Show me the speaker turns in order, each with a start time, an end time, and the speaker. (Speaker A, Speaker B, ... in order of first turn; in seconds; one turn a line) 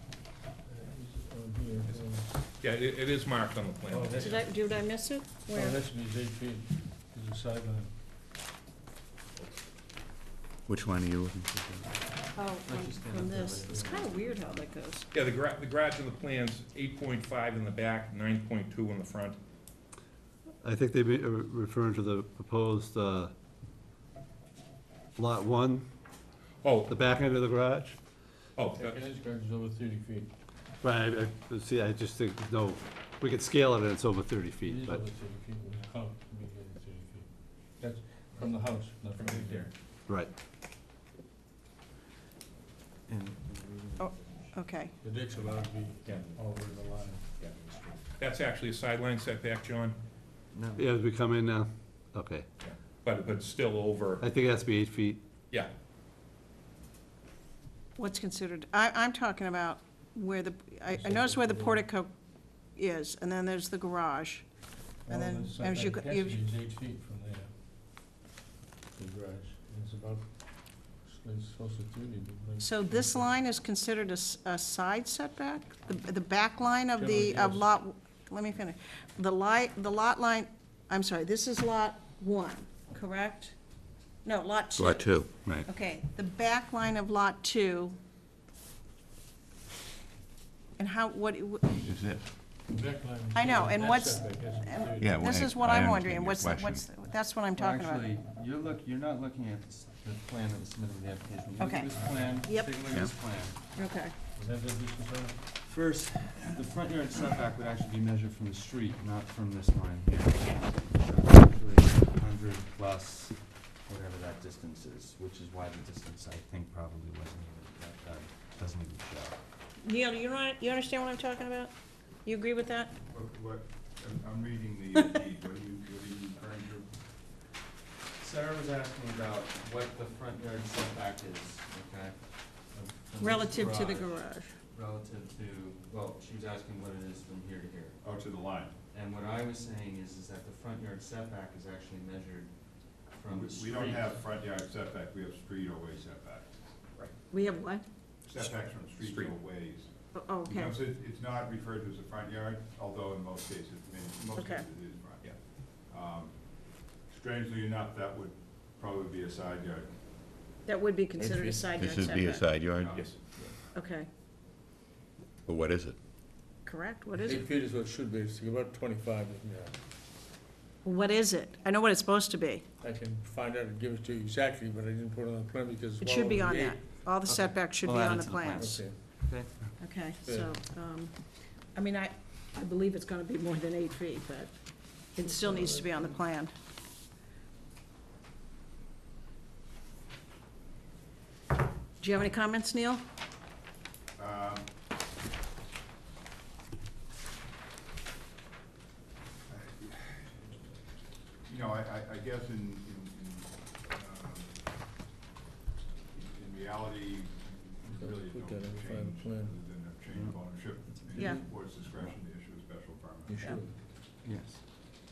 Speaker A: 0.6-2.3
Speaker B: 2.6-4.4
Speaker A: 3.9-4.4
Speaker C: 4.2-5.8
Speaker A: 5.5-7.9
Speaker D: 10.7-11.3
Speaker E: 10.8-11.9
Speaker C: 12.3-15.1
Speaker E: 12.6-14.7
Speaker B: 15.1-19.4
Speaker F: 20.6-23.3
Speaker F: 25.1-25.9
Speaker B: 26.6-26.9
Speaker F: 26.9-28.0
Speaker B: 28.6-29.0
Speaker A: 28.8-30.3
Speaker F: 30.8-35.0
Speaker A: 34.6-39.7
Speaker B: 39.1-39.7
Speaker F: 40.1-40.3
Speaker E: 43.1-44.5
Speaker C: 44.0-44.9
Speaker A: 45.0-47.3
Speaker B: 46.0-46.4
Speaker E: 47.4-48.0
Speaker B: 48.2-50.0
Speaker E: 50.5-50.8
Speaker F: 50.8-52.5
Speaker B: 52.6-54.2
Speaker F: 54.2-55.2
Speaker C: 58.0-62.1
Speaker A: 60.9-61.8
Speaker C: 62.7-64.5
Speaker C: 65.1-66.4
Speaker A: 65.1-67.5
Speaker A: 69.0-73.3
Speaker C: 72.6-83.5
Speaker A: 77.0-77.7
Speaker C: 84.2-88.0
Speaker D: 84.8-85.7
Speaker C: 90.8-91.8
Speaker D: 91.8-92.2
Speaker A: 92.7-95.2
Speaker C: 93.3-98.1
Speaker D: 95.0-96.8
Speaker E: 97.5-103.6
Speaker C: 101.6-101.9
Speaker C: 102.4-102.7
Speaker C: 103.7-104.1
Speaker A: 104.3-105.4
Speaker E: 105.6-119.4
Speaker C: 119.8-121.7
Speaker C: 122.2-122.9
Speaker G: 123.1-126.9
Speaker E: 128.2-138.0
Speaker C: 133.2-134.5
Speaker G: 138.0-138.7
Speaker E: 138.9-142.5
Speaker E: 143.1-144.2
Speaker G: 143.3-146.4
Speaker C: 147.3-147.8
Speaker G: 148.3-149.9
Speaker B: 148.3-149.4
Speaker C: 150.1-150.8
Speaker G: 150.4-155.2
Speaker C: 154.4-154.6
Speaker G: 155.8-156.3
Speaker G: 157.1-159.9
Speaker C: 160.7-162.5
Speaker A: 161.2-161.7
Speaker D: 161.7-163.0
Speaker G: 162.7-163.1
Speaker B: 162.9-163.2
Speaker C: 163.7-164.1
Speaker D: 165.4-166.0
Speaker C: 166.6-167.4
Speaker A: 167.2-169.8
Speaker C: 170.8-172.6
Speaker A: 172.8-176.8
Speaker C: 176.0-178.8
Speaker E: 177.2-179.5
Speaker A: 178.6-179.0
Speaker C: 179.8-181.2
Speaker A: 180.2-180.6
Speaker C: 181.7-184.5
Speaker C: 185.1-186.5
Speaker A: 185.2-186.2
Speaker C: 192.0-193.0
Speaker G: 194.2-194.7
Speaker G: 199.5-200.5
Speaker G: 201.4-204.5
Speaker G: 206.1-213.6
Speaker A: 207.9-209.6
Speaker E: 210.1-212.1
Speaker A: 213.3-213.8
Speaker E: 214.2-214.6